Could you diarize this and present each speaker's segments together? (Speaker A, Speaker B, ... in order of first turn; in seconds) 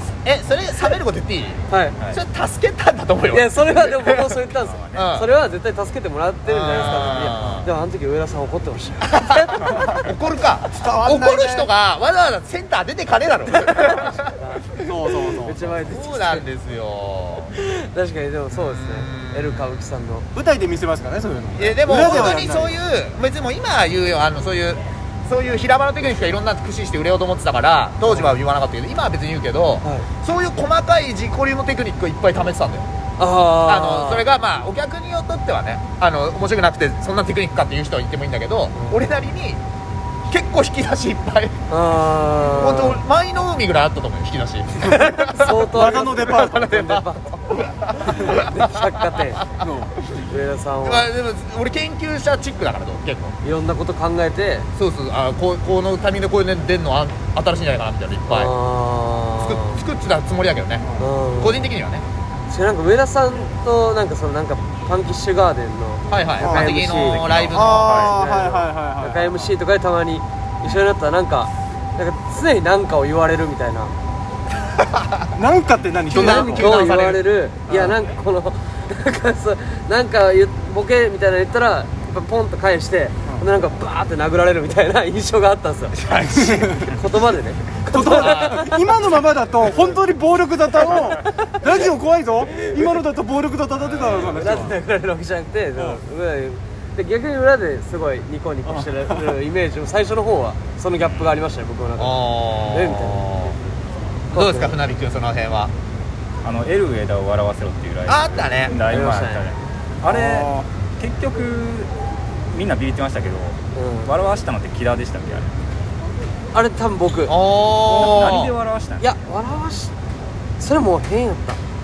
Speaker A: 0.2-4.4, 4.9-5.3, 6.5-7.7, 9.2-14.3, 15.9-17.5, 18.5-19.8, 21.6-32.9, 33.7-39.6, 40.3-41.6, 42.5-45.7, 46.4-49.7, 50.8-53.4, 54.8-58.5, 59.4-60.9, 61.4-62.0, 66.1-68.0, 74.8-75.3, 76.1-77.2, 86.0-86.8, 88.2-88.6, 102.0-103.6, 104.3-105.7, 108.1-108.8, 117.3-118.5
Speaker B: 1.7-2.0, 3.3-10.2, 13.7-16.4, 17.6-20.3, 22.1-22.4, 28.1-28.4, 33.2-34.3, 38.8-39.0, 41.7-43.0, 45.2-49.4, 50.0-51.1, 53.4-54.7, 58.3-59.8, 61.0-61.7, 62.5-73.9, 76.2-86.0, 86.8-88.9, 89.6-90.0, 90.9-91.6, 92.5-93.0, 94.0-103.3, 104.3-104.8, 108.9-109.5, 113.8-114.2, 116.5-117.4, 119.0-119.9, 120.6-121.6
Speaker C: 4.4-5.1, 67.2-68.2, 101.0-101.4, 106.4-111.9, 112.5-115.5, 117.9-119.0
Speaker D: 10.9-11.6, 14.8-15.6, 20.4-22.7, 45.8-46.5, 49.6-49.9, 67.6-69.5, 75.4-76.2, 87.9-94.8